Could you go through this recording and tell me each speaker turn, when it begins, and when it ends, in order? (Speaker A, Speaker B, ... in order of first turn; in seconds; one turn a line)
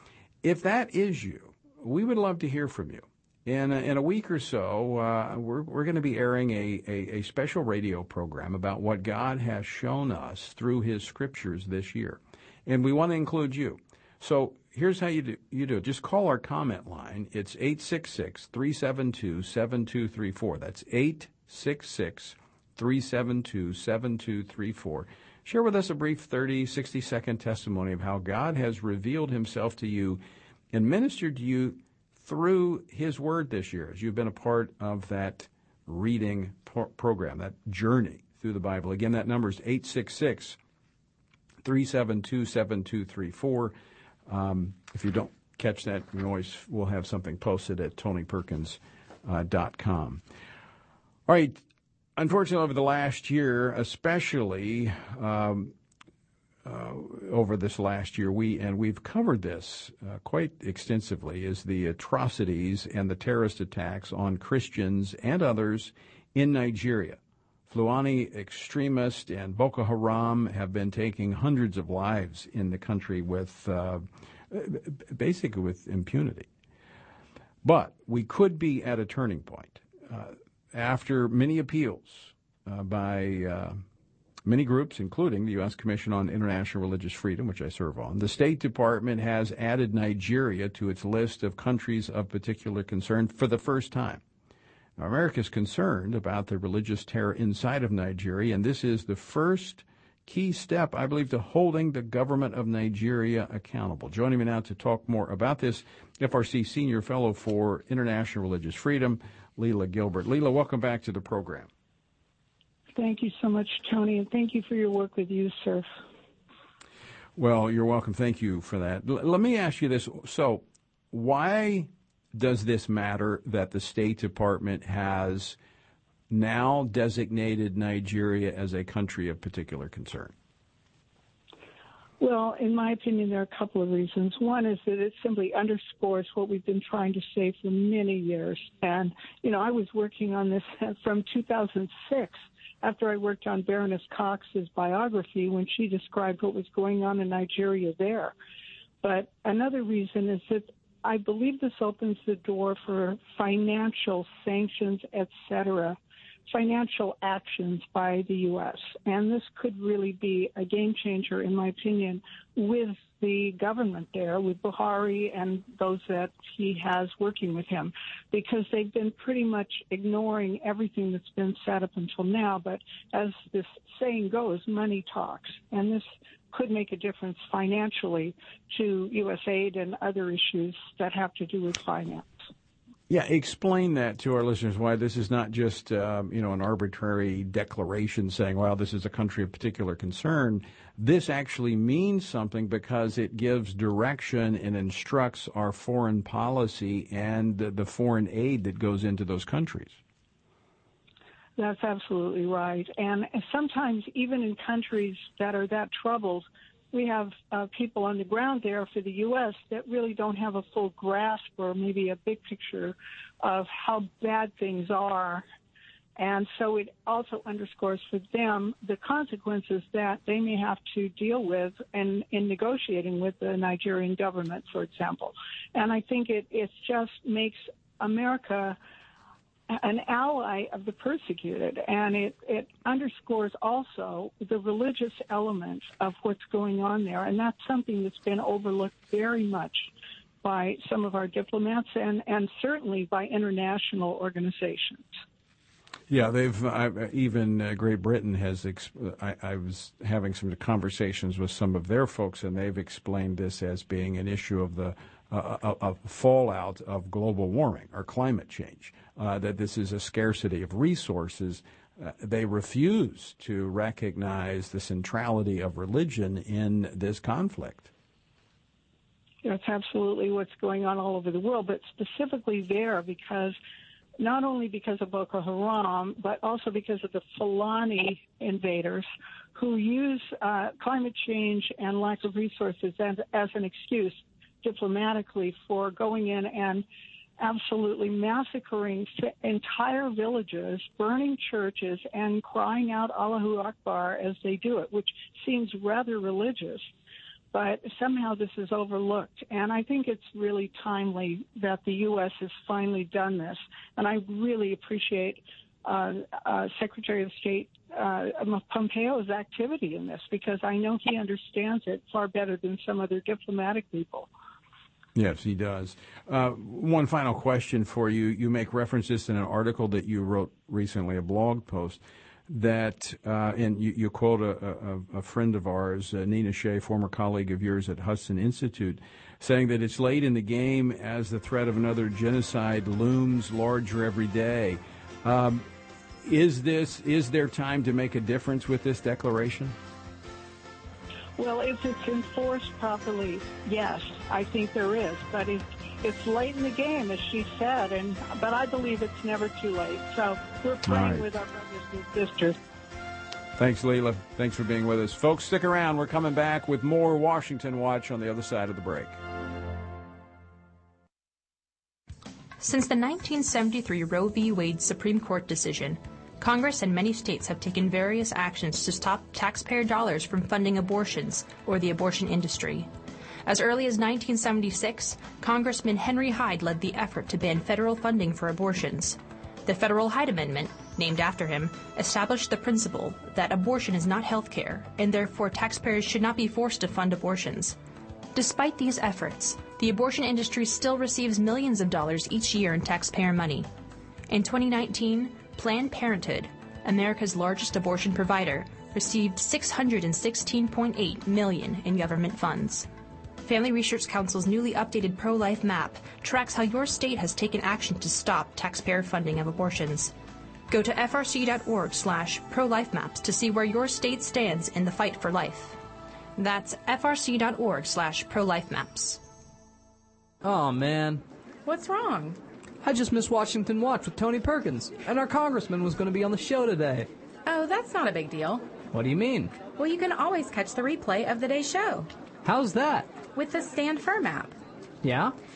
Speaker A: 0.4-30.2
Speaker A: 30.7-40.6
Speaker A: 41.6-43.8
Speaker A: 44.3-50.2
Speaker A: 51.3-51.6
Speaker A: 52.2-55.8
Speaker A: 56.6-76.5
Speaker A: 77.6-83.8
Speaker A: 84.5-94.2
Speaker A: 95.0-111.7
Speaker B: 113.0-115.9
Speaker A: 117.4-125.6
Speaker A: 126.3-130.3
Speaker B: 132.2-148.3
Speaker B: 149.0-156.0
Speaker B: 156.5-182.3
Speaker A: 183.1-200.0
Speaker B: 201.6-215.4
Speaker B: 216.2-228.8
Speaker B: 229.7-239.9
Speaker B: 240.4-245.1
Speaker A: 246.1-267.9
Speaker B: 269.4-273.6
Speaker B: 274.2-286.9
Speaker B: 287.4-296.9
Speaker B: 297.5-314.3
Speaker A: 315.1-335.7
Speaker A: 336.2-339.8
Speaker B: 341.4-352.6
Speaker A: 350.9-351.3
Speaker A: 353.6-359.2
Speaker C: 362.6-372.9
Speaker C: 373.5-387.8
Speaker C: 388.3-393.7
Speaker C: 394.3-402.9
Speaker C: 403.4-410.1
Speaker C: 410.7-415.8
Speaker C: 416.4-419.2
Speaker D: 420.4-421.2
Speaker E: 421.7-422.4
Speaker D: 422.8-427.1
Speaker E: 427.5-428.7
Speaker D: 428.9-429.6
Speaker E: 429.7-432.1
Speaker D: 432.4-433.2
Speaker E: 433.3-434.6
Speaker D: 435.0-435.4